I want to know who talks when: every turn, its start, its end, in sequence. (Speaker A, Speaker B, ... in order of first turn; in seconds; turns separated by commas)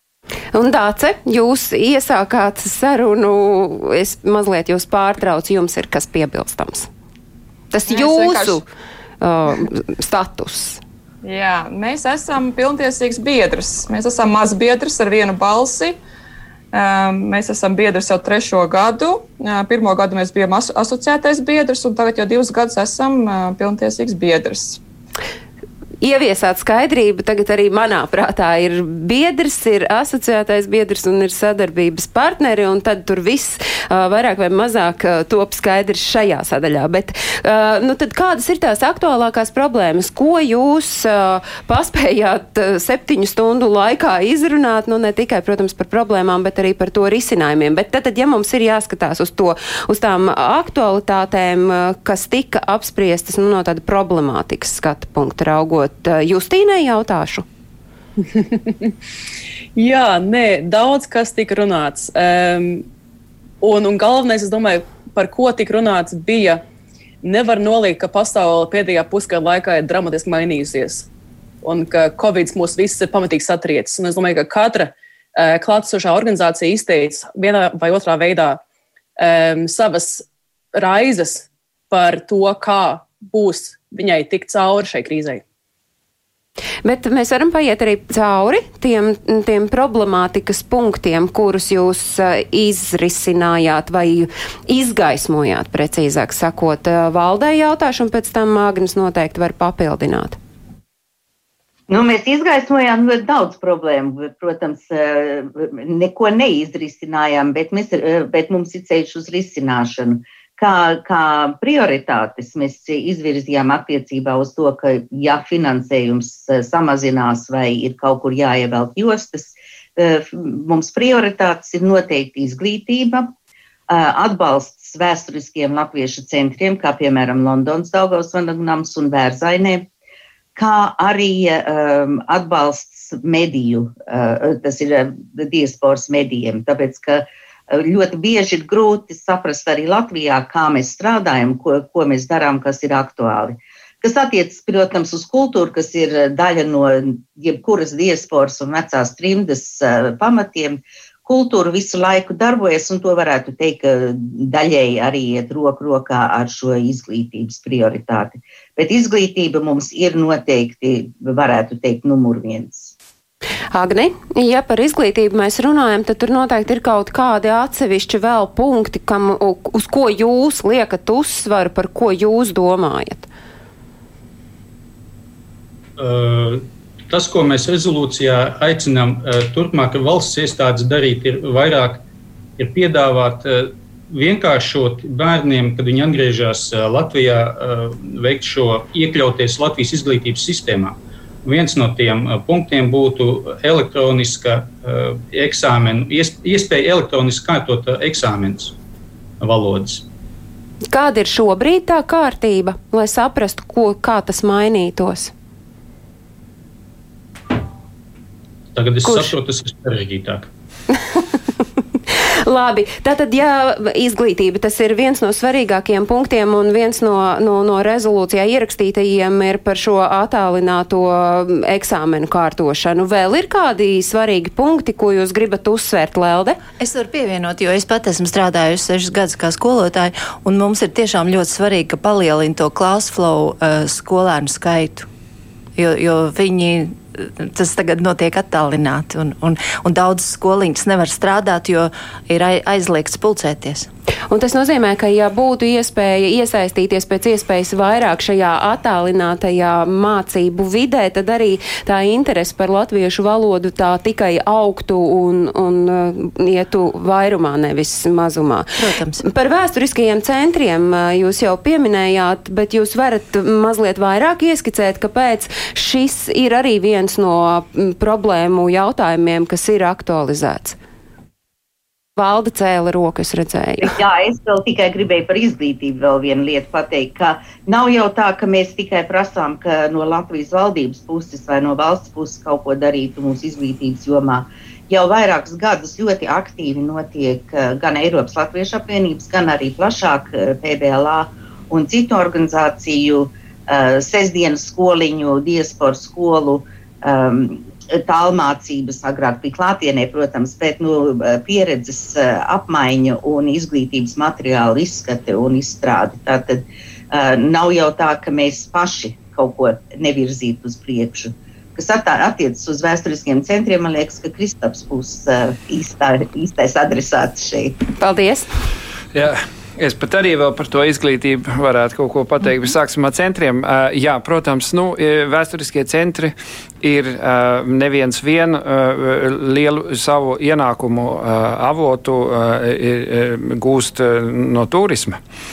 Speaker A: 0.5-6.9, Speaker A: 7.7-8.6, Speaker B: 7.9-8.6, Speaker A: 9.2-10.8, Speaker B: 11.2-16.0, Speaker B: 16.7-24.8, Speaker A: 26.0-57.5, Speaker C: 58.3-58.9, Speaker C: 59.8-62.9, Speaker C: 63.6-66.6, Speaker C: 67.2-71.1, Speaker C: 71.6-78.6, Speaker C: 79.2-85.4, Speaker A: 86.8-100.4, Speaker D: 101.9-123.3, Speaker D: 123.9-129.9, Speaker D: 130.6-162.9, Speaker A: 163.7-173.3, Speaker E: 176.0-182.0, Speaker E: 182.6-198.7, Speaker E: 199.4-200.1, Speaker A: 200.9-205.3, Speaker E: 208.7-210.5, Speaker A: 209.0-209.3, Speaker A: 212.4-226.6, Speaker F: 226.8-235.1, Speaker F: 235.8-243.9, Speaker A: 244.3-258.7, Speaker F: 258.8-259.2, Speaker A: 259.2-270.8, Speaker A: 272.2-273.9, Speaker D: 273.8-317.8, Speaker A: 318.0-318.5, Speaker G: 319.1-335.2